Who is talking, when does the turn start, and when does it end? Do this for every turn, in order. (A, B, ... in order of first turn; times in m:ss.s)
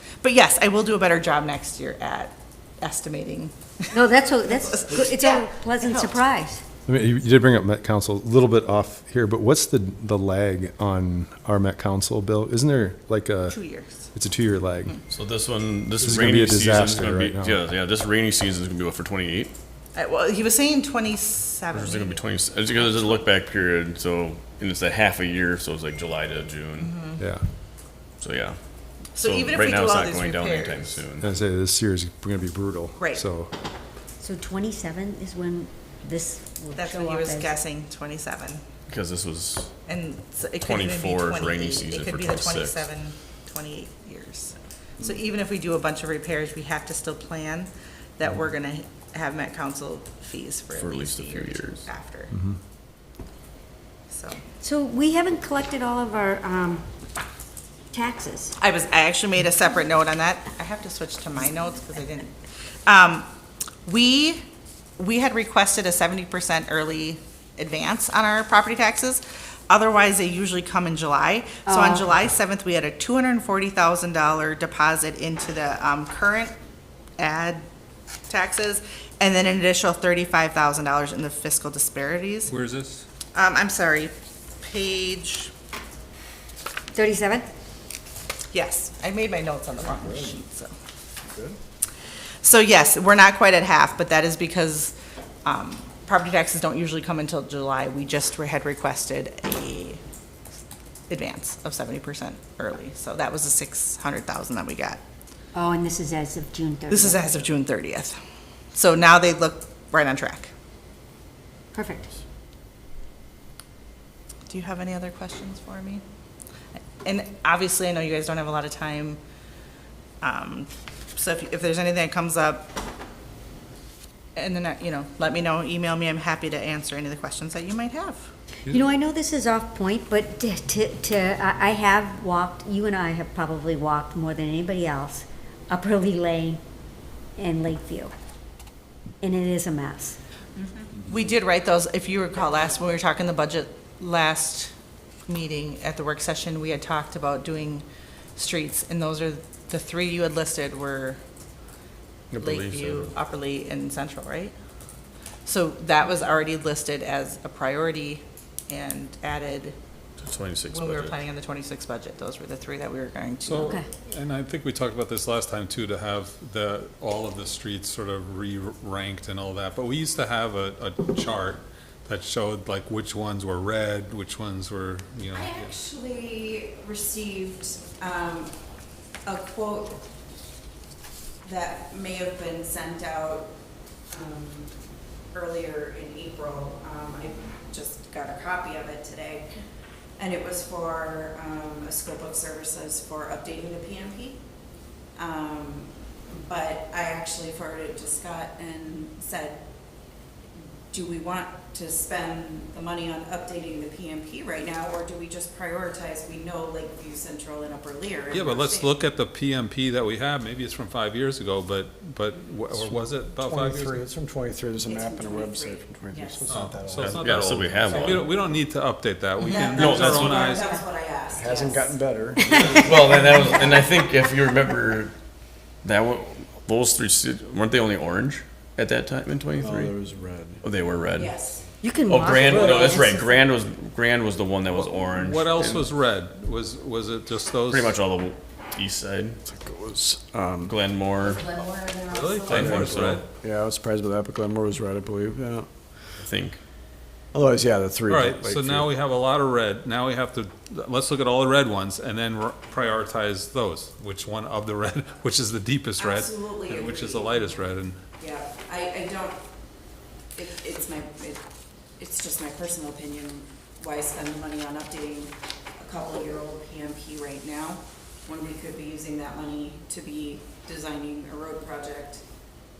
0:00.2-0:04.0 A
0:03.9-0:06.6 B
0:04.5-0:06.3 A
0:06.8-0:13.6 C
0:13.5-0:14.1 A
0:14.1-0:15.0 C
0:15.1-0:19.5 D
0:16.0-0:17.6 C
0:19.9-0:22.2 A
0:21.7-0:27.0 D
0:22.8-0:23.2 A
0:26.8-0:27.2 A
0:27.2-0:27.4 C
0:28.2-0:28.6 D
0:29.1-0:31.3 D
0:29.2-0:31.0 A
0:31.2-0:33.5 C
0:33.0-0:33.2 A
0:34.2-0:37.6 B
0:36.7-0:38.6 A
0:38.9-0:39.7 D
0:39.9-0:52.3 A
0:40.6-0:42.9 D
0:50.7-0:51.9 D
0:54.1-0:54.4 A
0:54.6-0:56.8 B
0:57.9-0:58.5 B
0:58.6-1:03.3 A
1:03.8-1:04.4 A
1:05.0-1:16.5 A
1:11.6-1:12.0 B
1:17.2-1:17.6 A
1:18.3-1:22.5 A
1:22.5-1:23.0 E
1:23.3-1:25.5 A
1:26.9-1:27.4 B
1:28.5-1:30.7 A
1:29.9-1:30.4 F
1:31.3-1:31.6 F
1:32.4-1:40.0 A
1:41.1-1:45.0 A
1:45.5-1:47.4 B
1:46.9-1:48.2 A
1:48.7-1:50.5 A
1:51.7-1:52.1 B
1:54.5-1:56.0 A
1:57.0-1:59.2 A
2:00.2-2:02.7 A
2:04.3-2:08.3 A
2:08.7-2:16.6 B
2:17.4-2:18.1 B
2:19.2-2:20.2 B
2:21.0-2:24.7 A
2:25.3-2:31.2 A
2:32.3-2:33.1 D
2:32.4-2:34.5 A
2:35.4-2:39.7 A
2:40.2-2:41.2 D
2:40.7-2:43.8 A
2:43.4-2:55.7 E
2:43.6-2:43.8 B
2:55.3-2:58.5 G
2:59.2-3:00.0 G
3:01.4-3:03.5 G
3:04.1-3:04.7 G
3:05.3-3:09.5 G
3:10.2-3:14.4 G
3:15.2-3:19.6 G
3:20.9-3:29.0 G
3:28.3-3:34.0 E
3:32.7-3:37.3 F
3:34.8-3:36.5 G
3:36.5-3:40.6 E
3:37.0-3:38.3 D
3:39.5-3:42.0 G
3:39.7-3:40.4 D
3:41.3-3:43.0 F
3:42.6-3:44.0 G
3:42.8-3:45.2 D
3:45.8-3:49.9 D
3:49.6-3:50.6 F
3:50.6-3:51.3 D
3:51.1-3:51.7 G
3:51.8-3:53.4 B
3:52.0-3:55.9 D
3:52.4-3:52.8 F
3:54.7-3:58.0 E
3:57.7-3:59.4 D
3:59.4-4:00.8 F
4:00.6-4:01.6 D
4:01.2-4:02.9 G
4:02.1-4:03.2 E
4:02.5-4:03.2 D
4:02.5-4:05.7 F
4:06.2-4:06.6 D
4:07.3-4:08.9 F
4:08.1-4:18.0 E
4:16.0-4:19.4 G
4:20.3-4:21.4 G
4:22.0-4:32.2 G